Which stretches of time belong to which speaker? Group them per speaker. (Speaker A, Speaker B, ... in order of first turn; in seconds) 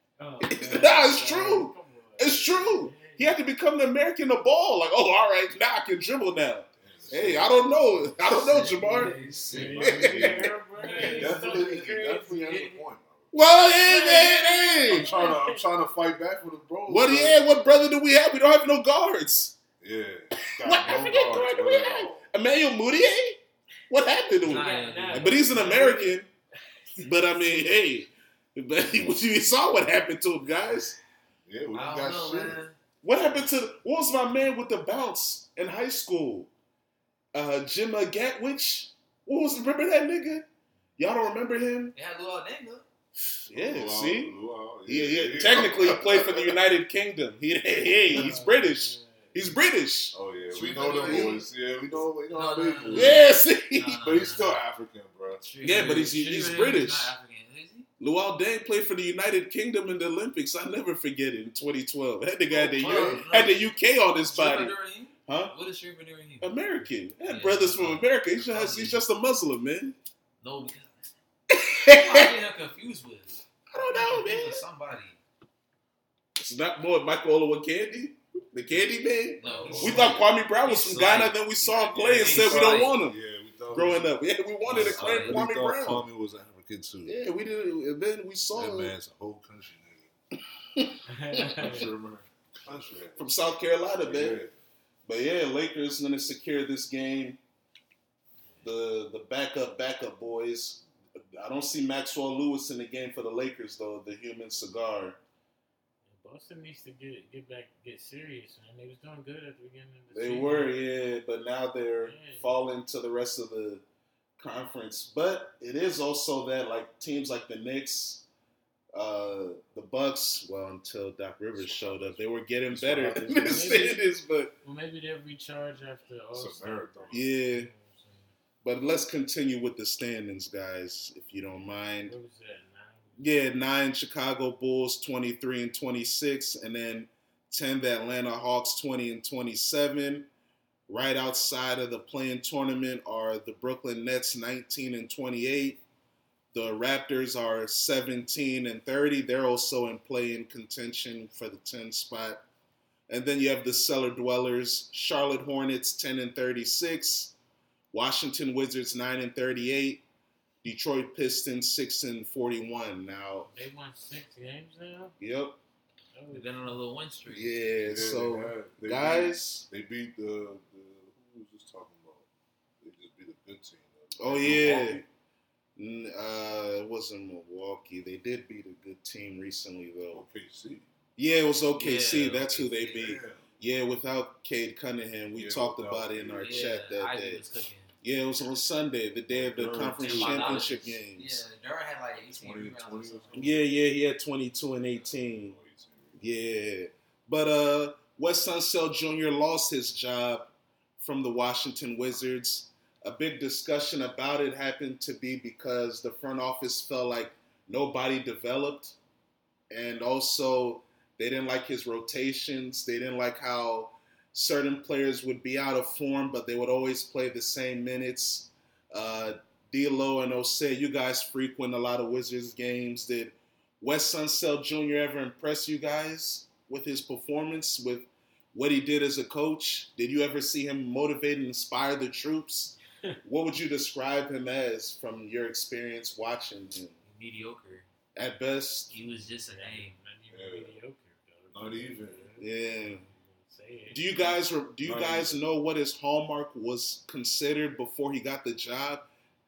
Speaker A: 0.2-3.3, 8.4-12.8, 13.8-15.7, 24.5-26.2, 27.0-27.7, 48.0-49.6, 55.8-56.7, 91.1-91.9, 106.1-110.8, 112.0-112.5, 123.5-124.0, 124.6-128.3, 131.5-133.3, 163.5-165.2, 166.1-166.8, 239.5-244.4
Speaker B: 0.4-9.1, 9.8-11.3, 13.3-15.1, 16.9-19.6, 20.5-26.3, 27.0-31.0, 33.0-36.5, 37.3-40.4, 41.0-41.9, 43.2-44.3, 44.9-51.4, 52.9-54.0, 55.6-57.1, 58.0-64.7, 65.2-65.5, 66.4-69.9, 71.5-72.3, 73.7-74.6, 76.4-83.2, 83.7-86.0, 87.0-88.9, 90.7-91.5, 93.2-94.4, 95.0-97.4, 98.6-105.2, 110.1-113.8, 114.4-118.2, 118.9-124.5, 127.1-127.7, 128.6-132.1, 133.2-140.3, 140.9-145.8, 146.5-152.4, 153.1-157.3, 157.9-160.0, 160.6-163.5, 165.2-165.6, 167.3-169.6, 174.2-175.0, 175.8-180.2, 181.2-187.4, 188.0-191.4, 193.3-195.6, 196.2-208.9, 209.7-236.9, 238.1-238.9, 242.4-243.0, 243.9-249.0
Speaker C: 6.8-8.7, 9.5-13.3, 14.9-17.4, 19.8-22.3, 31.4-32.6, 43.5-46.6, 50.1-53.2, 54.0-55.4, 62.5-63.3, 79.4-80.1, 82.2-84.1, 84.7-87.1, 88.5-90.1, 91.6-93.5, 94.0-94.5, 121.5-123.9, 126.3-127.3, 167.8-172.3, 172.8-175.1, 180.1-180.8, 182.9-183.4, 185.3-186.7, 189.3-190.7, 192.2-193.6, 194.8-196.2, 240.3-240.7, 241.5-242.4, 244.8-245.4
Speaker D: 8.3-10.2, 10.8-11.4, 24.4-25.5, 31.7-32.8, 41.9-42.8, 50.5-51.5, 52.3-54.6, 55.4-57.9, 62.8-63.7, 64.2-66.5, 67.2-69.0, 70.4-71.1, 71.9-75.2, 79.4-83.0, 84.7-85.4, 166.3-167.5, 181.8-183.2, 186.4-187.9, 190.0-193.5, 237.0-237.9, 238.9-240.0